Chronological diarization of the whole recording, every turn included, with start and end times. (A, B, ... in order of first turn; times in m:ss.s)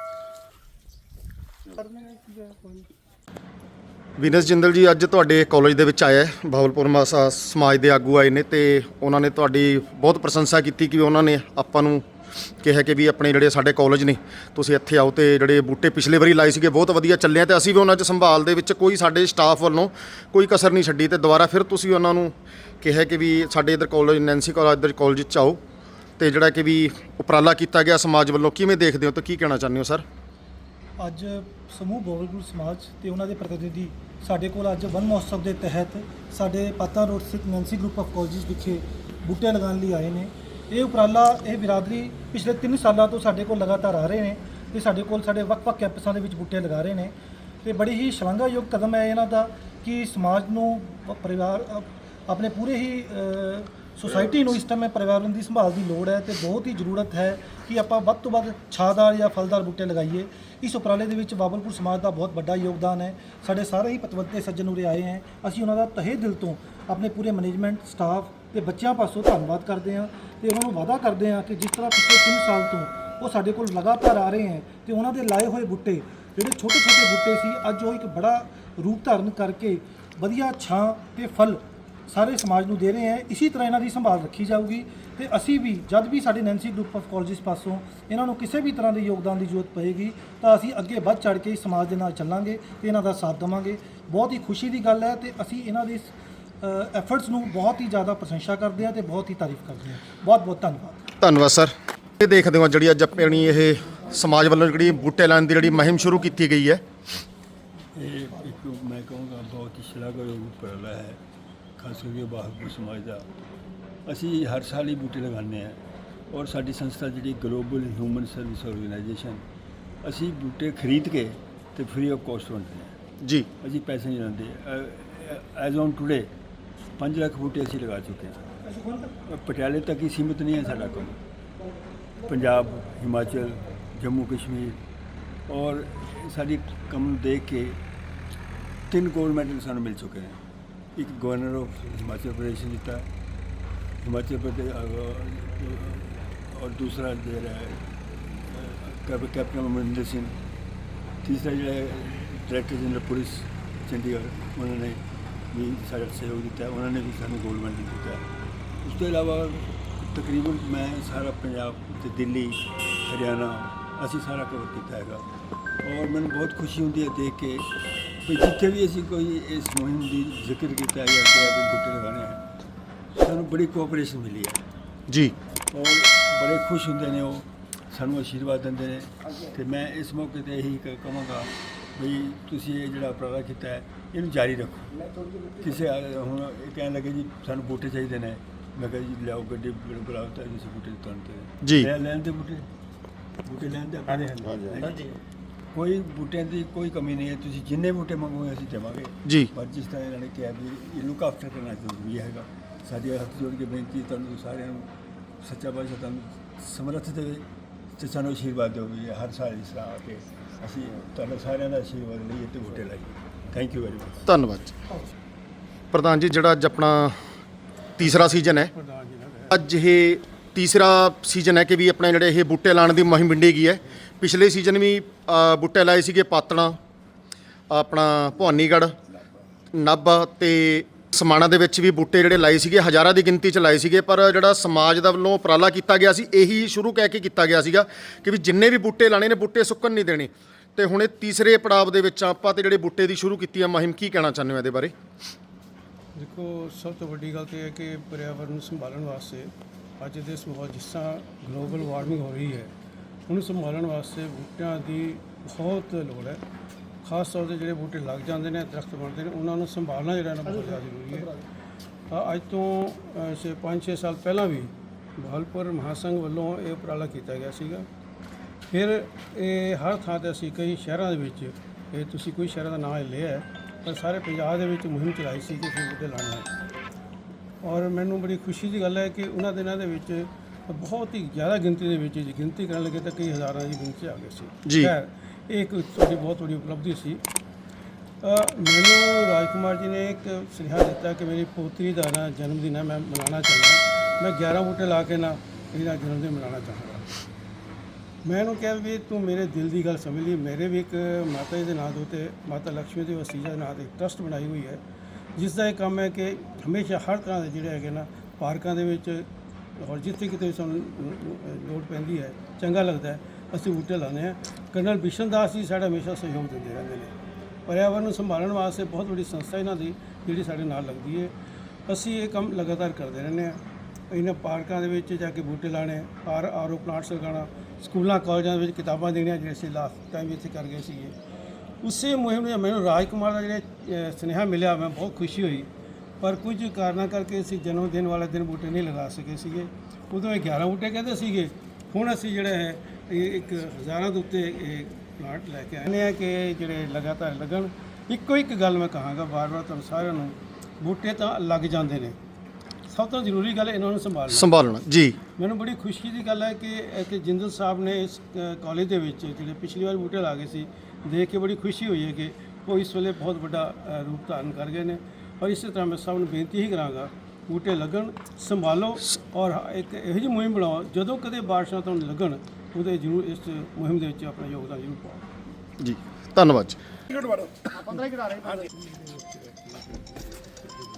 0:04.2-0:12.0 A
0:12.6-0:25.6 A
0:26.2-0:30.0 A
0:31.0-1:41.0 B
1:41.2-1:46.8 A
1:47.9-1:51.2 C
1:51.8-1:53.3 C
1:54.1-1:59.4 C
2:00.0-2:03.0 C
2:03.2-2:03.5 A
2:03.6-2:06.3 C
2:07.0-2:08.4 C
2:08.7-2:09.1 B
2:09.3-2:11.2 C
2:12.2-2:14.8 C
2:15.5-2:17.8 C
2:18.9-2:20.4 C
2:21.0-2:23.1 C
2:24.0-2:30.4 C
2:31.2-2:45.2 C
2:45.8-2:52.4 C
2:53.1-2:54.6 C
2:55.1-2:55.4 A
2:55.7-3:12.7 C
3:11.6-3:11.9 A
3:13.4-3:15.2 C
3:15.7-3:34.3 C
3:19.3-3:19.5 A
3:34.3-3:34.8 A
3:35.9-3:37.2 A
3:38.0-3:38.7 A
3:38.0-3:39.6 D
3:39.5-3:46.8 A
3:47.7-3:49.0 A
3:49.7-4:04.9 A
4:06.2-4:12.7 D
4:13.3-4:16.4 D
4:17.0-4:21.3 D
4:20.4-4:21.4 B
4:22.1-4:27.9 D
4:28.7-4:36.5 D
4:37.6-4:47.2 D
4:44.7-4:44.9 A
4:48.2-4:57.1 D
4:58.2-5:04.8 D
5:05.4-5:17.1 D
5:17.7-5:21.4 D
5:21.9-5:31.2 D
5:31.8-5:52.2 D
5:52.9-5:54.5 D
5:54.3-5:55.2 A
5:55.4-6:15.3 D
6:15.8-6:16.8 A
6:18.9-6:19.4 D